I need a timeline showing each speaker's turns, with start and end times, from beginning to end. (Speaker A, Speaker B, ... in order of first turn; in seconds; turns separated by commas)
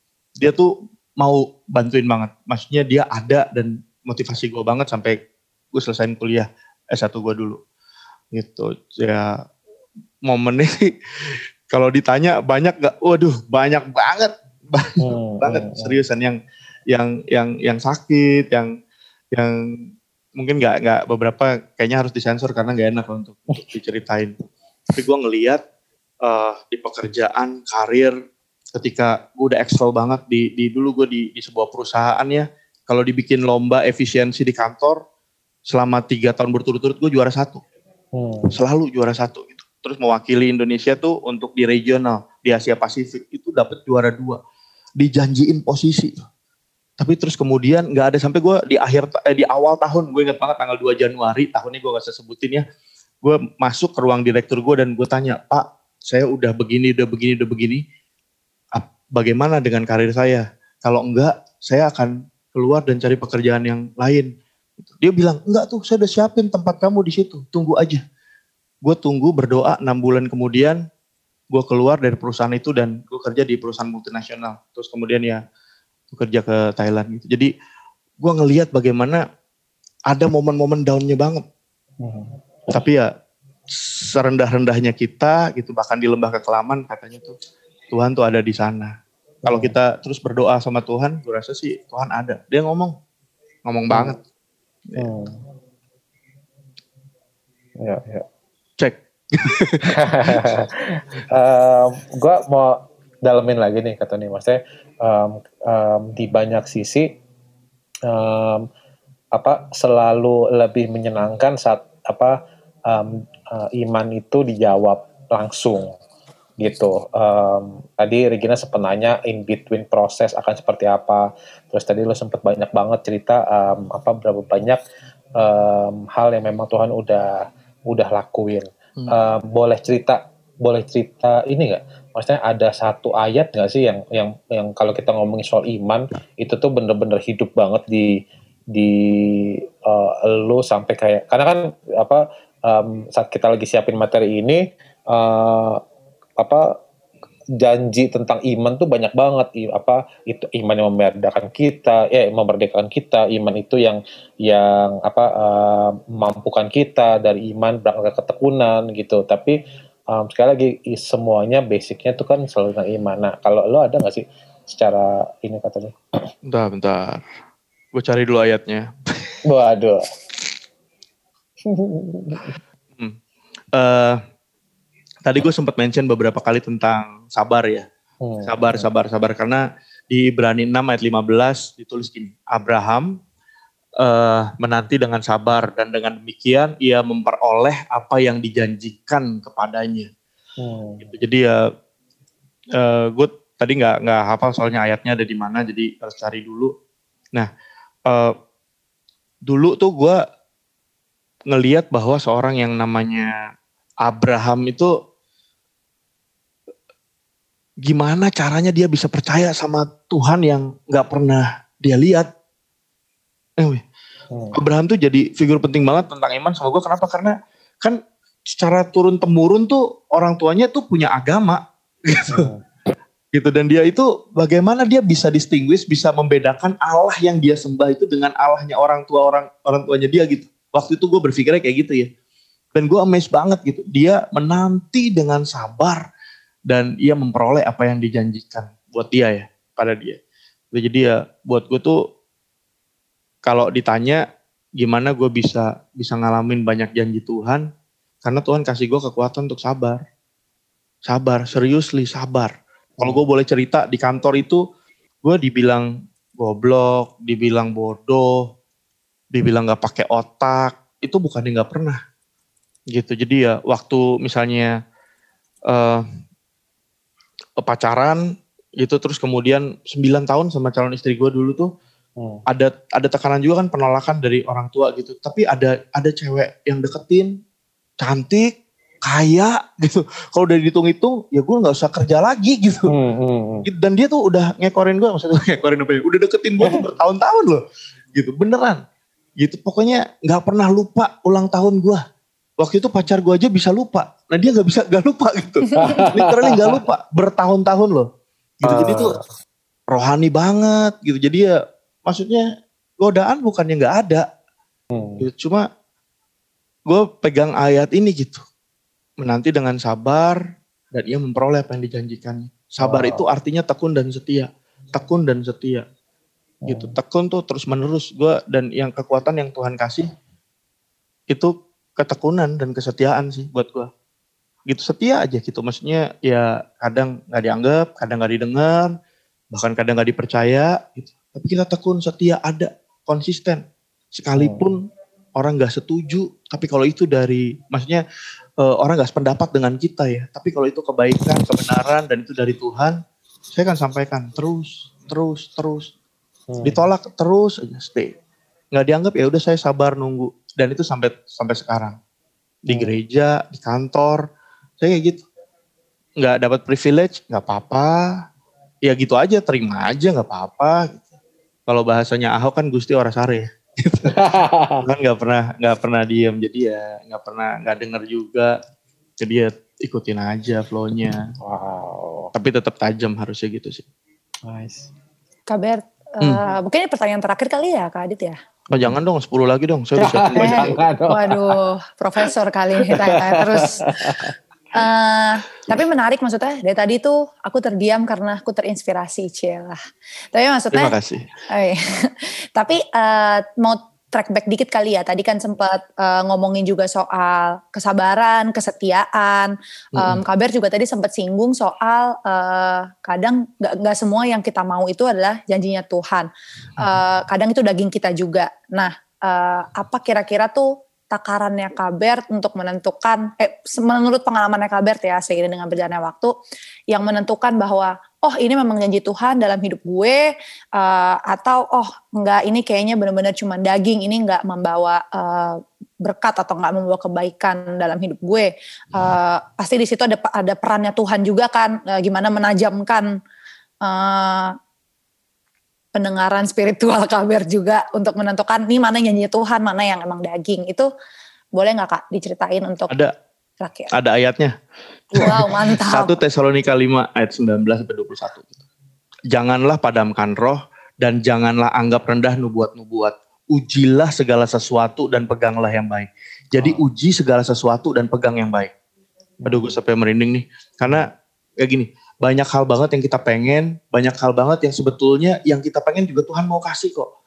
Speaker A: 0.4-5.2, Speaker A: 5.7-7.6, Speaker A: 8.3-9.3, Speaker A: 10.2-16.4, Speaker B: 15.0-15.9, Speaker A: 16.9-18.7, Speaker A: 20.4-24.3, Speaker A: 24.9-25.6, Speaker A: 26.2-28.1, Speaker A: 28.7-35.0, Speaker A: 35.7-37.6, Speaker B: 38.1-38.5, Speaker A: 38.5-44.4, Speaker A: 45.0-46.2, Speaker A: 47.0-52.6, Speaker A: 53.2-57.8, Speaker A: 58.7-64.3, Speaker A: 64.8-68.0, Speaker A: 68.8-70.8, Speaker A: 71.5-75.4, Speaker A: 76.1-77.5, Speaker A: 78.2-79.2, Speaker A: 80.1-81.4, Speaker B: 82.0-82.4, Speaker A: 82.7-83.1, Speaker A: 83.7-87.3, Speaker A: 87.9-88.9, Speaker B: 89.4-89.7, Speaker A: 89.5-92.9, Speaker A: 93.7-94.2, Speaker B: 93.9-94.2, Speaker B: 95.0-95.4, Speaker B: 97.8-98.2, Speaker A: 98.8-100.5, Speaker B: 99.9-107.2, Speaker B: 108.1-108.6, Speaker B: 109.3-112.4, Speaker B: 112.9-115.9, Speaker B: 116.6-124.8, Speaker B: 125.4-138.1, Speaker B: 138.7-145.8, Speaker B: 147.6-159.6, Speaker B: 160.1-165.9, Speaker A: 166.5-167.2, Speaker A: 167.9-169.4, Speaker B: 169.4-170.0, Speaker B: 171.6-172.6, Speaker A: 173.7-174.2, Speaker A: 175.2-177.8, Speaker B: 178.2-178.9, Speaker A: 178.4-183.1, Speaker A: 184.0-190.1, Speaker B: 190.6-191.1, Speaker A: 191.0-191.6, Speaker A: 192.8-196.7, Speaker A: 198.1-198.3, Speaker A: 199.5-200.2, Speaker A: 201.5-203.3, Speaker A: 204.0-204.9, Speaker A: 207.8-212.3, Speaker A: 213.6-213.8, Speaker B: 214.3-214.6, Speaker A: 214.5-222.5, Speaker B: 222.3-222.6, Speaker A: 223.3-232.1, Speaker A: 232.7-236.0, Speaker A: 236.7-240.2, Speaker A: 240.7-242.0, Speaker A: 243.4-244.2, Speaker A: 244.8-247.6, Speaker A: 248.2-250.0, Speaker A: 251.1-254.6, Speaker A: 255.2-258.4, Speaker A: 259.3-262.0, Speaker A: 262.9-264.7, Speaker A: 265.7-266.0, Speaker A: 267.6-268.2, Speaker A: 268.8-271.7, Speaker A: 272.5-277.3, Speaker A: 278.0-278.5, Speaker A: 279.1-282.9, Speaker B: 282.9-283.7, Speaker A: 283.6-287.6, Speaker A: 288.1-288.8, Speaker A: 289.4-292.0, Speaker A: 292.6-298.1, Speaker C: 295.7-296.0, Speaker B: 295.8-296.8, Speaker A: 298.6-299.2, Speaker B: 298.6-299.2, Speaker A: 299.9-301.5, Speaker A: 302.1-302.4, Speaker A: 303.0-304.2, Speaker B: 304.9-305.2, Speaker A: 305.2-305.6, Speaker A: 306.9-308.4, Speaker A: 309.2-310.4, Speaker A: 310.9-315.9, Speaker B: 312.8-313.2, Speaker B: 316.6-317.0, Speaker A: 316.7-320.1, Speaker A: 321.3-323.9, Speaker A: 324.7-328.9, Speaker A: 329.5-333.6, Speaker A: 334.1-334.8, Speaker B: 334.4-334.7, Speaker A: 335.4-338.0, Speaker A: 338.6-343.0, Speaker A: 343.5-345.9, Speaker B: 346.5-346.9, Speaker A: 346.6-348.1, Speaker A: 348.7-351.9, Speaker A: 352.7-354.2, Speaker B: 352.7-352.9, Speaker A: 354.8-355.2, Speaker A: 356.2-358.0, Speaker A: 358.9-361.0, Speaker A: 361.7-364.3, Speaker B: 364.1-364.8, Speaker A: 364.8-368.6, Speaker A: 369.2-371.3, Speaker B: 371.4-372.3, Speaker A: 372.3-373.9, Speaker B: 374.4-374.9, Speaker C: 375.5-378.3, Speaker A: 378.7-380.8, Speaker B: 378.7-379.0, Speaker B: 380.0-381.6, Speaker C: 380.4-383.9, Speaker B: 383.1-384.3, Speaker C: 384.7-389.8, Speaker C: 390.3-390.9, Speaker A: 390.7-391.2, Speaker C: 391.5-406.3, Speaker A: 399.9-400.2, Speaker C: 406.8-416.3, Speaker C: 416.9-420.2, Speaker C: 420.8-433.1, Speaker C: 433.8-434.5, Speaker C: 435.9-440.9, Speaker C: 441.5-442.9, Speaker C: 443.6-443.9, Speaker A: 443.9-444.5, Speaker C: 445.1-446.1, Speaker A: 445.1-448.6, Speaker A: 449.3-458.7, Speaker B: 456.6-456.8, Speaker B: 459.4-459.8, Speaker A: 459.4-461.1, Speaker A: 461.6-467.1